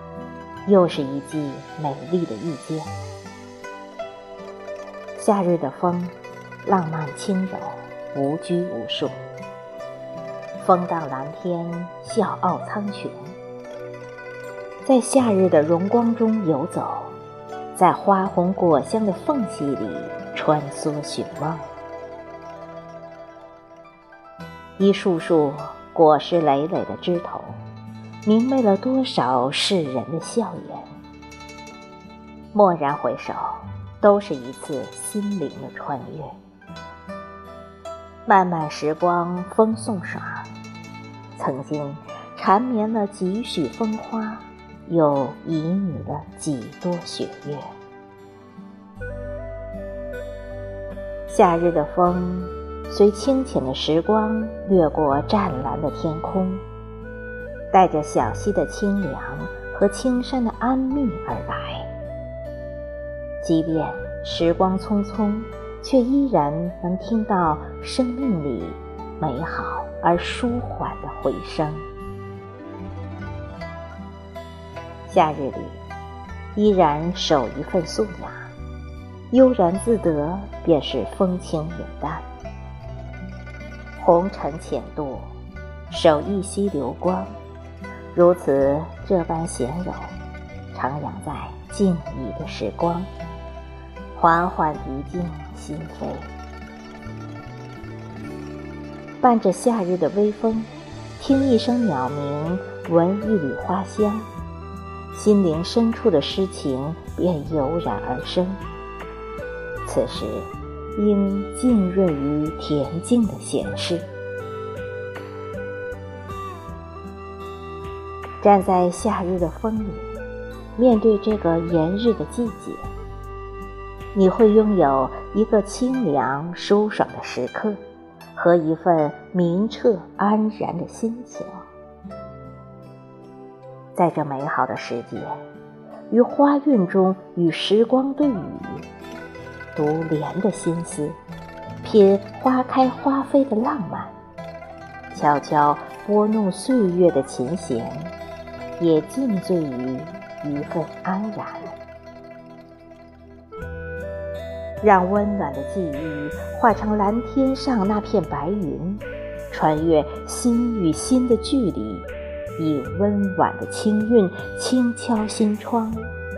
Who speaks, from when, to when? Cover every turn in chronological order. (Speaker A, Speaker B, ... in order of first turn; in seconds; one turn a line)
Speaker A: 0.7-2.9
Speaker A: 5.2-6.1
Speaker A: 6.6-9.1
Speaker A: 10.6-13.3
Speaker A: 14.8-17.1
Speaker A: 17.7-21.6
Speaker A: 24.8-27.6
Speaker A: 28.2-30.9
Speaker A: 32.5-36.3
Speaker A: 38.2-40.5
Speaker A: 41.4-47.7
Speaker A: 51.3-56.6
Speaker A: 57.7-61.9
Speaker A: 63.4-71.8
Speaker A: 75.1-75.8
Speaker A: 76.5-78.5
Speaker A: 79.3-82.2
Speaker A: 84.0-85.3
Speaker A: 85.9-87.3
Speaker A: 88.1-90.2
Speaker A: 90.7-93.1
Speaker A: 94.1-96.3
Speaker A: 99.2-104.3
Speaker A: 105.1-108.6
Speaker A: 109.8-114.0
Speaker A: 118.4-120.0
Speaker A: 120.8-122.8
Speaker A: 124.1-127.8
Speaker A: 128.3-131.6
Speaker A: 133.9-135.3
Speaker A: 136.1-138.8
Speaker A: 139.7-141.2
Speaker A: 141.8-144.1
Speaker A: 145.1-148.1
Speaker A: 148.8-151.8
Speaker A: 154.8-166.1